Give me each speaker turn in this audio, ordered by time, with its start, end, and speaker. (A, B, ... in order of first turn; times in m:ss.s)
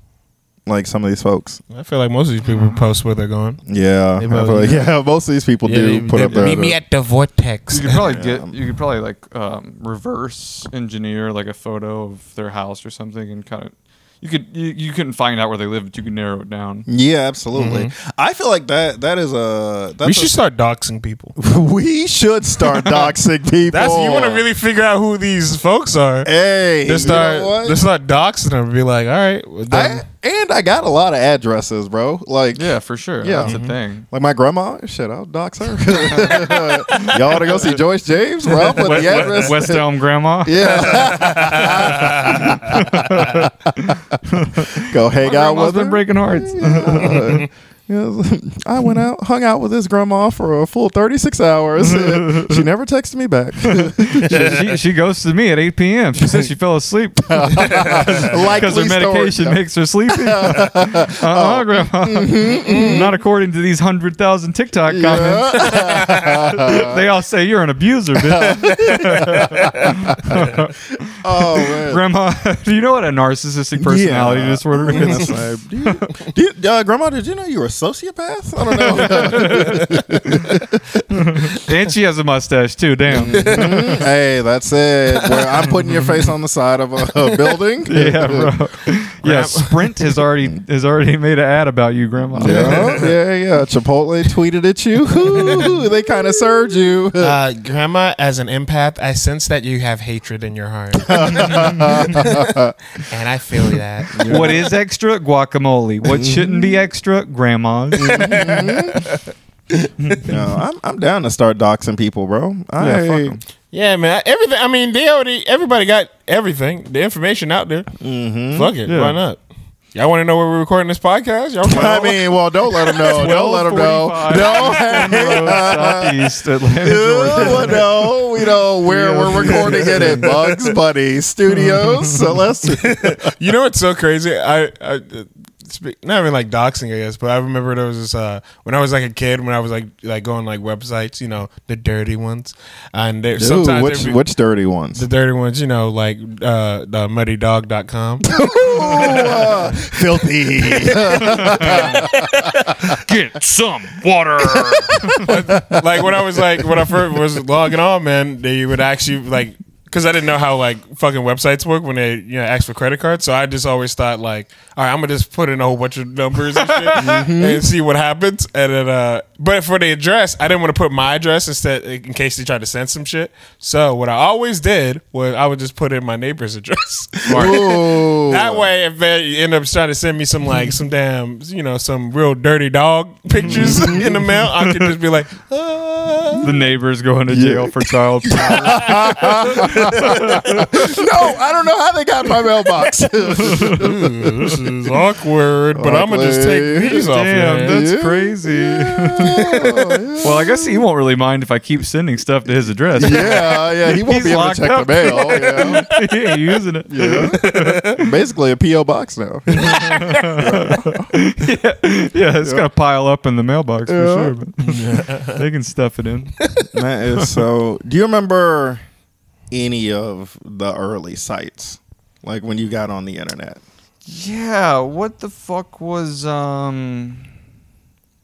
0:00.7-0:01.6 A
0:01.7-0:03.6 B
0:03.7-0:06.8 A
0:04.2-0:04.9 B
0:05.6-0:08.0 B
0:07.7-0:16.9 C
0:07.9-0:08.6 A
0:16.9-0:20.4 A
0:17.5-0:17.9 B
0:20.0-0:21.3 B
0:21.4-0:24.5 A
0:22.6-0:23.1 C
0:23.7-0:26.3 B
0:26.2-0:27.8 A
0:26.8-0:30.0 B
0:29.7-0:32.7 A
0:32.6-0:34.1 C
0:33.2-0:33.6 A
0:33.4-0:33.8 B
0:34.1-0:39.8 A
0:35.9-0:37.6 C
0:38.5-0:47.5 C
0:38.8-0:39.5 B
0:40.4-0:54.6 A
0:40.7-0:42.5 B
0:51.8-0:52.6 C
0:53.6-1:16.1 C
0:57.3-1:03.1 A
0:57.6-0:58.6 B
1:02.7-1:03.1 B
1:04.9-1:07.0 A
1:05.6-1:06.3 B
1:08.3-1:10.6 A
1:11.2-1:12.0 A
1:13.8-1:20.8 A
1:18.7-1:23.7 C
1:19.4-1:19.9 B
1:23.1-1:28.5 A
1:23.3-1:24.1 B
1:25.2-1:25.8 B
1:27.2-1:27.6 B
1:27.9-1:33.0 C
1:29.2-1:30.1 B
1:32.4-1:37.4 A
1:32.4-1:33.2 B
1:35.3-1:35.8 B
1:37.2-1:44.7 B
1:41.0-1:42.8 A
1:44.1-1:44.7 A
1:44.2-1:48.5 C
1:46.1-1:46.8 A
1:48.0-1:49.0 A
1:48.0-1:49.2 B
1:49.8-1:50.4 B
1:50.2-1:53.4 A
1:52.8-1:53.4 C
1:53.7-1:57.9 B
1:58.0-1:58.7 A
1:58.5-1:59.4 B
1:58.8-1:59.2 C
1:59.9-2:02.2 B
2:01.6-2:06.2 A
2:02.8-2:03.4 B
2:03.0-2:07.8 C
2:04.3-2:05.6 B
2:06.8-2:13.3 A
2:08.8-2:10.3 C
2:09.2-2:10.8 B
2:11.6-2:24.2 B
2:23.4-2:25.0 A
2:25.0-2:30.0 B
2:28.3-2:32.9 A
2:28.7-2:29.2 C
2:30.6-2:32.8 B
2:31.1-2:32.1 C
2:32.8-2:35.3 C
2:34.5-2:36.7 A
2:35.2-3:05.5 B
2:46.7-2:47.3 C
2:46.9-2:47.6 A
2:57.3-2:58.7 A
3:03.4-3:04.2 A
3:03.6-3:04.0 C
3:04.6-3:04.9 C
3:05.5-3:06.6 A
3:06.4-3:10.8 C
3:07.3-3:14.9 A
3:09.1-3:10.6 B
3:13.4-3:13.8 C
3:13.5-3:17.8 B
3:15.8-3:17.0 A
3:17.0-3:28.0 C
3:17.6-3:20.8 A
3:23.0-3:25.9 A
3:23.0-3:23.5 B
3:25.2-3:26.0 B
3:26.9-3:31.1 A
3:27.2-3:28.0 B
3:29.5-3:36.3 C
3:29.6-3:30.5 B
3:33.9-3:34.4 A
3:34.6-3:35.4 B
3:36.7-3:38.8 A
3:39.5-3:43.6 A
3:44.1-3:47.3 C